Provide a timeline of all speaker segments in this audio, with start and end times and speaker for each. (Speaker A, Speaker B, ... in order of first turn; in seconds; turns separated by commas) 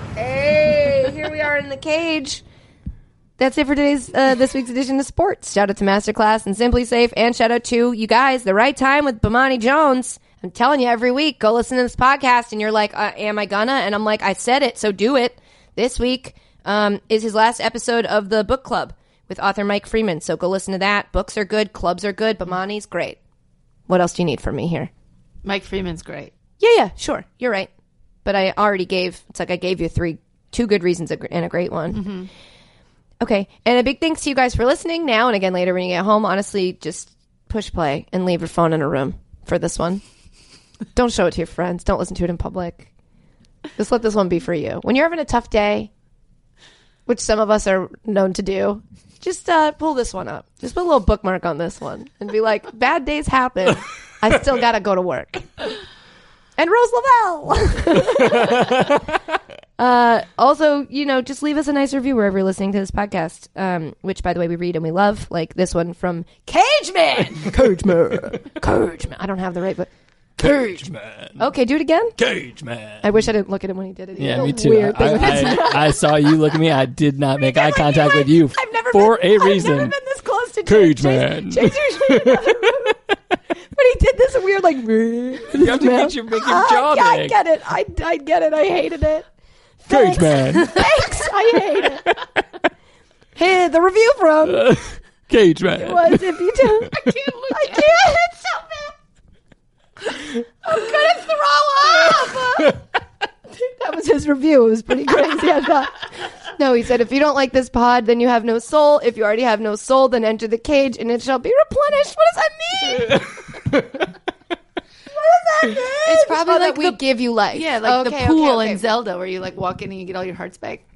Speaker A: 0.2-2.4, Speaker A: 3.4-23.2, Speaker A: 23.9-24.9, Speaker B: 25.4-26.3, Speaker A: 26.6-27.7, Speaker A: 28.2-32.1, Speaker B: 31.9-32.3, Speaker A: 33.2-40.0, Speaker A: 40.9-42.9, Speaker A: 43.8-45.9, Speaker A: 47.1-55.6, Speaker A: 56.6-59.0, Speaker A: 59.8-72.2, Speaker B: 66.5-67.5, Speaker C: 70.4-71.4, Speaker C: 72.2-73.1, Speaker A: 73.0-76.3, Speaker C: 74.2-79.9, Speaker B: 75.0-75.6, Speaker A: 77.4-83.0, Speaker C: 80.7-82.7, Speaker A: 83.7-89.3, Speaker C: 85.5-87.4, Speaker A: 89.8-92.1, Speaker C: 89.9-90.8, Speaker A: 93.4-94.7, Speaker C: 94.5-96.3, Speaker A: 95.8-98.9, Speaker B: 97.3-98.0, Speaker A: 100.6-102.8, Speaker A: 103.6-113.2, Speaker A: 115.1-118.8, Speaker B: 115.6-117.0, Speaker B: 117.5-120.8